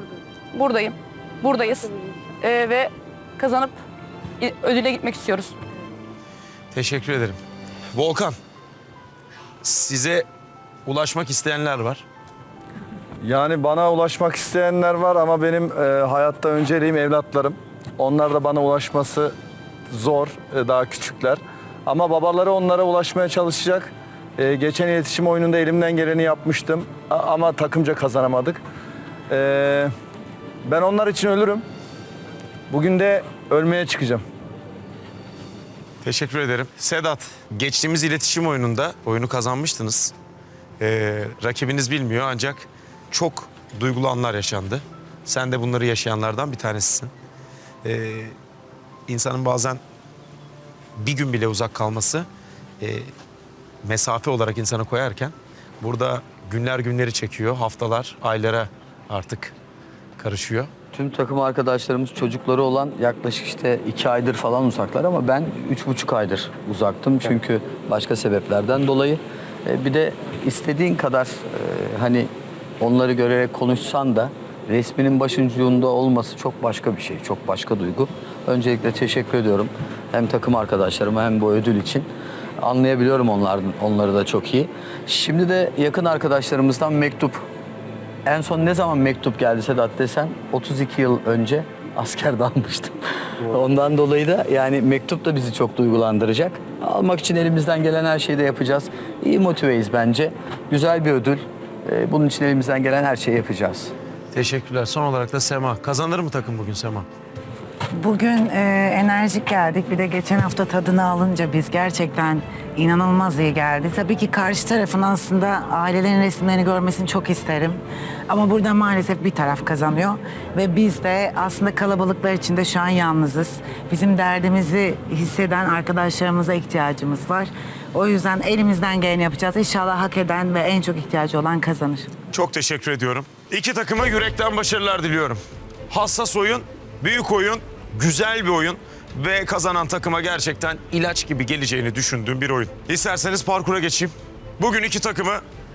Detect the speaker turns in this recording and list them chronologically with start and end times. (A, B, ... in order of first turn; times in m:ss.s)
0:00.5-0:03.8 A
0:04.4-0:05.6 A
0:06.7-0:07.4 B
0:07.9-0:08.4 B
0:09.6-0:10.3 B
0:10.9-0:12.0 B
0:13.2-0:19.4 C
0:19.9-0:28.6 C
0:29.3-0:29.9 C
0:30.6-0:31.7 C
0:32.7-0:34.2 C
0:36.0-0:40.1 B
0:40.8-0:47.1 B
0:47.8-0:48.4 B
0:49.1-0:49.8 B
0:51.0-0:52.3 B
0:52.8-0:53.1 B
0:53.8-0:59.5 B
1:00.2-1:00.7 B
1:00.9-1:22.1 D
1:22.6-1:27.4 D
1:28.3-1:43.9 D
1:44.3-1:47.1 B
1:48.0-2:12.1 E
2:12.3-2:25.4 B